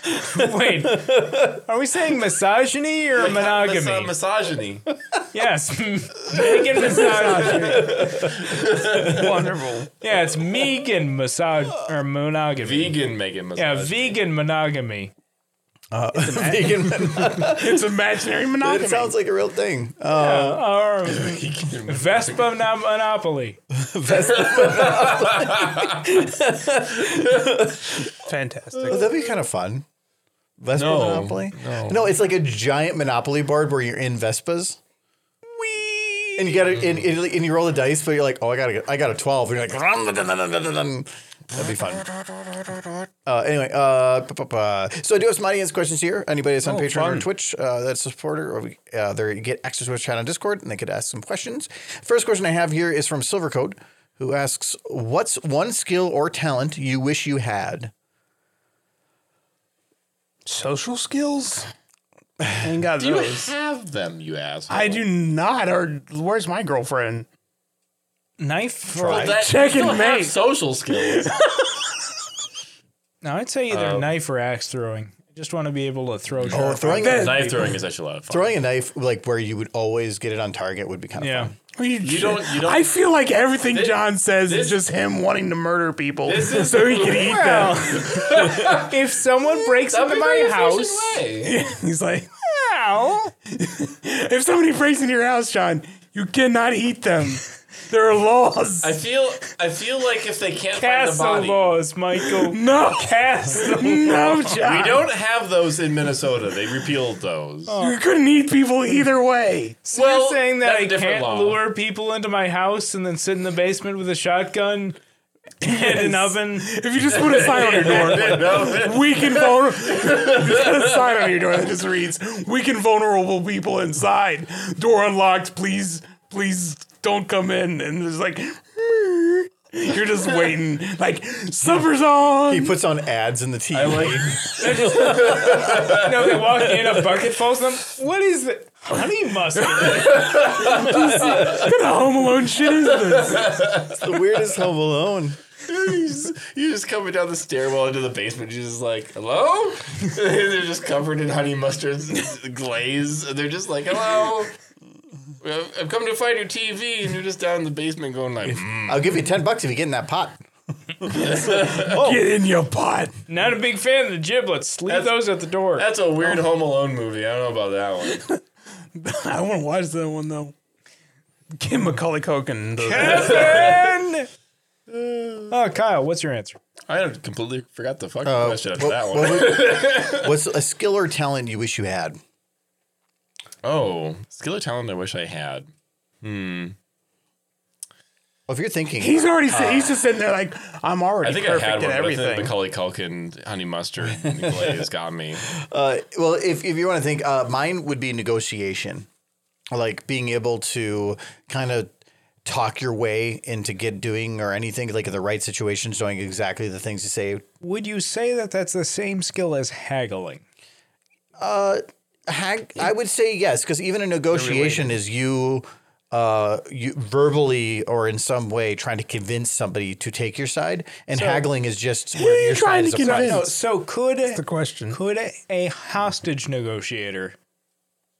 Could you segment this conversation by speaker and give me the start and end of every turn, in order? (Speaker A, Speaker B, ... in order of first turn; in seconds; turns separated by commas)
Speaker A: 0.2-4.1, Speaker B: 1.0-1.5, Speaker C: 3.1-4.8, Speaker A: 5.3-8.1, Speaker D: 6.3-8.0, Speaker C: 6.9-9.4, Speaker B: 7.8-8.4, Speaker D: 8.9-9.9, Speaker A: 10.0-13.0, Speaker C: 12.6-14.2, Speaker A: 13.5-15.1, Speaker B: 15.9-17.8, Speaker D: 16.1-19.1, Speaker B: 18.6-20.6, Speaker A: 20.1-23.6, Speaker C: 21.0-22.5, Speaker B: 23.7-27.8, Speaker C: 24.1-27.7, Speaker D: 28.2-29.1, Speaker B: 28.9-29.8, Speaker B: 30.6-34.8, Speaker C: 30.7-32.1, Speaker A: 35.5-36.5, Speaker B: 36.4-42.0, Speaker C: 36.7-37.0, Speaker C: 41.5-42.9, Speaker B: 43.2-57.9, Speaker D: 46.6-47.3, Speaker D: 60.5-61.7, Speaker D: 62.6-63.5, Speaker C: 63.0-65.1, Speaker D: 64.7-67.2, Speaker A: 68.4-69.3, Speaker B: 68.9-69.4, Speaker C: 69.0-71.4, Speaker D: 69.3-70.4, Speaker D: 70.9-71.9, Speaker A: 73.2-77.3, Speaker C: 73.7-74.1, Speaker C: 76.3-78.5, Speaker B: 76.5-77.7, Speaker D: 77.0-77.8, Speaker B: 78.3-81.5, Speaker A: 81.2-81.5, Speaker D: 81.7-88.2, Speaker C: 82.0-82.9, Speaker C: 83.7-84.8, Speaker C: 86.2-91.7, Speaker A: 87.1-91.2, Speaker D: 91.4-92.3, Speaker A: 92.4-93.3, Speaker D: 93.5-99.0, Speaker C: 98.8-101.8, Speaker A: 100.7-104.8, Speaker D: 102.2-105.1, Speaker C: 104.6-107.7, Speaker A: 107.7-108.0, Speaker D: 107.8-109.8, Speaker A: 109.8-115.0, Speaker C: 109.9-111.6, Speaker A: 115.6-116.7, Speaker D: 115.6-132.8, Speaker C: 117.1-121.0, Speaker B: 132.5-134.6, Speaker C: 133.7-136.5, Speaker A: 135.0-140.4, Speaker D: 139.6-143.5, Speaker C: 139.8-141.7, Speaker C: 142.6-144.5, Speaker B: 143.9-145.4, Speaker C: 145.6-154.5, Speaker C: 155.4-159.1, Speaker B: 158.8-160.4, Speaker C: 161.1-162.0, Speaker D: 161.5-163.1, Speaker A: 161.9-162.2, Speaker A: 163.3-165.9, Speaker C: 164.9-168.2, Speaker D: 168.0-168.4, Speaker D: 168.9-170.5, Speaker D: 171.6-173.7, Speaker A: 172.8-174.3, Speaker C: 173.0-173.9, Speaker C: 174.9-175.6, Speaker A: 175.5-176.6, Speaker C: 176.9-180.3, Speaker B: 178.2-182.2, Speaker C: 183.6-185.7, Speaker C: 186.2-186.8, Speaker B: 188.5-189.9, Speaker D: 189.0-192.5, Speaker C: 191.2-195.4, Speaker B: 195.5-199.1, Speaker B: 199.7-201.9, Speaker B: 202.4-207.4, Speaker A: 207.6-210.4, Speaker B: 211.4-223.5, Speaker D: 214.3-215.0, Speaker A: 221.1-221.5, Speaker D: 222.1-223.5, Speaker A: 223.3-227.3, Speaker D: 224.3-225.0